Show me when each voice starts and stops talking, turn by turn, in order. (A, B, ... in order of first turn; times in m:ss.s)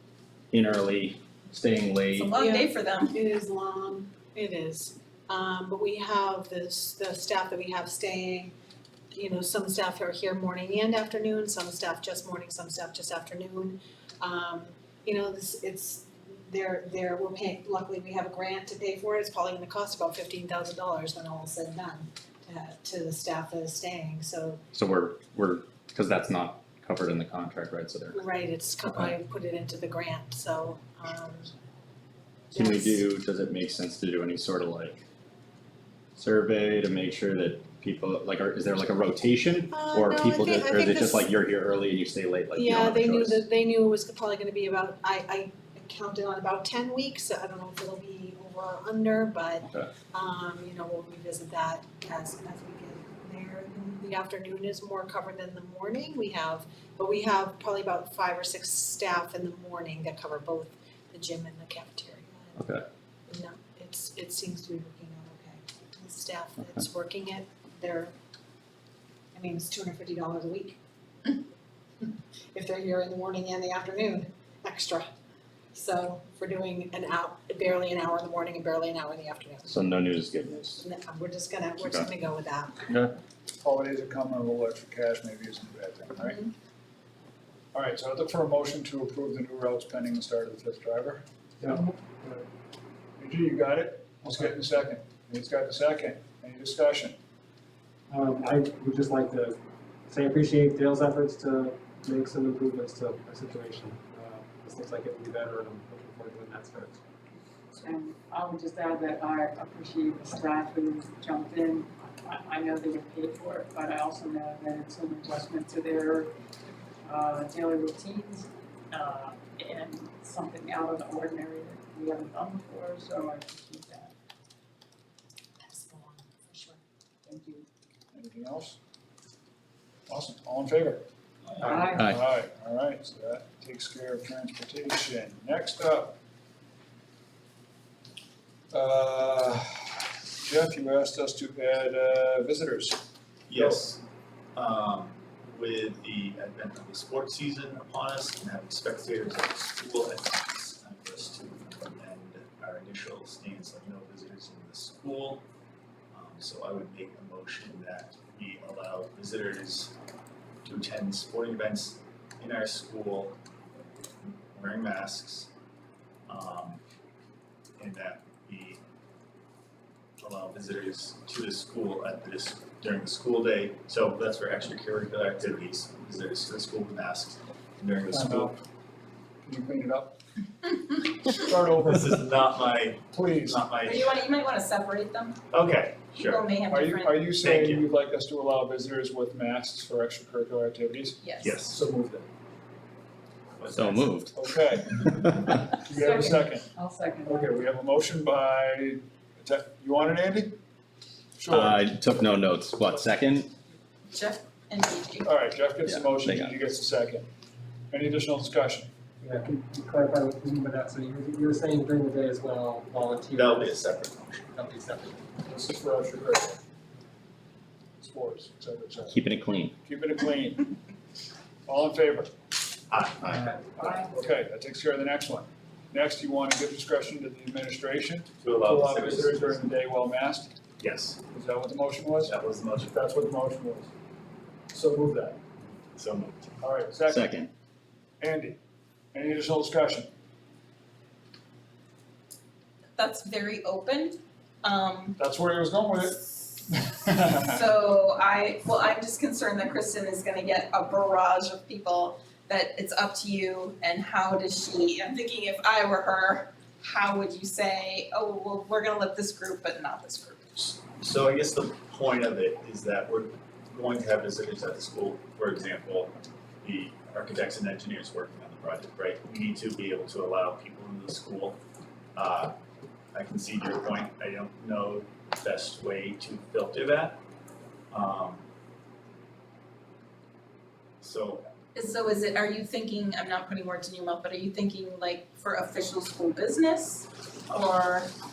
0:00.5-0:02.3 A
0:02.1-0:03.1 B
0:02.4-0:08.5 C
0:09.1-0:24.6 C
0:24.7-0:28.2 A
0:28.1-0:31.5 C
0:28.8-0:29.1 A
0:32.5-0:33.0 C
0:32.5-0:35.0 A
0:36.2-0:43.4 A
0:39.7-0:41.3 C
0:42.5-1:02.6 C
1:02.6-1:02.8 A
1:03.3-1:08.1 C
1:09.3-1:10.8 C
1:12.0-1:15.1 C
1:15.7-1:19.8 C
1:19.6-1:20.8 A
1:20.8-1:22.8 C
1:21.8-1:22.1 A
1:22.9-1:23.1 A
1:23.6-1:26.4 D
1:27.7-1:31.2 D
1:31.6-1:32.4 E
1:33.2-1:37.2 D
1:38.1-1:47.0 E
1:47.7-1:56.3 F
1:57.0-2:04.1 F
2:05.6-2:06.8 C
2:07.2-2:07.7 F
2:08.1-2:08.8 D
2:10.1-2:11.0 D
2:11.6-2:12.0 G
2:11.6-2:16.2 D
2:11.6-2:12.0 F
2:18.7-2:23.0 D
2:23.5-2:24.0 G
2:23.6-2:23.8 D
2:24.5-2:35.4 G
2:36.1-2:39.9 G
2:40.6-2:43.4 G
2:44.2-2:45.5 G
2:46.3-2:46.8 G
2:47.8-2:48.8 G
2:50.2-2:58.5 G
2:58.1-2:58.6 D
2:59.4-3:00.2 D
3:01.3-3:02.3 D
3:01.4-3:04.1 G
3:03.1-3:03.7 D
3:03.8-3:05.4 B
3:05.5-3:06.6 G
3:06.2-3:07.4 B
3:06.7-3:12.3 D
3:07.4-3:07.8 G
3:11.2-3:11.6 B
3:11.4-3:11.8 G
3:13.6-3:14.3 G
3:13.7-3:14.3 A
3:14.3-3:16.7 D
3:15.1-3:15.5 A
3:16.0-3:17.6 F
3:17.2-3:20.6 D
3:21.4-3:22.0 D
3:21.5-3:23.5 A
3:24.1-3:25.3 B
3:25.2-3:27.3 D
3:25.8-3:26.5 A
3:27.9-3:28.9 D
3:29.2-3:33.8 E
3:33.3-3:34.5 G
3:34.5-3:35.2 E
3:35.5-3:36.6 D
3:38.0-3:39.2 D
3:39.1-3:39.8 A
3:39.8-3:40.7 D
3:41.6-3:42.3 D
3:42.9-3:43.5 G
3:43.3-3:43.9 E
3:44.0-3:50.5 D
3:48.4-3:49.7 G
3:50.8-3:51.2 G
3:51.3-3:53.9 D
3:52.2-3:52.9 G
3:54.7-3:55.4 D
3:55.9-3:56.5 G
3:56.6-3:57.3 D
3:57.1-3:57.5 A
3:58.2-3:58.6 D
3:59.1-4:00.1 D
4:03.0-4:05.2 B
4:05.2-4:07.6 D
4:07.4-4:20.8 B
4:20.8-4:31.6 G
4:32.1-4:32.5 G
4:33.1-4:37.2 G
4:37.9-4:38.4 G
4:41.0-4:41.5 G
4:41.7-4:48.1 B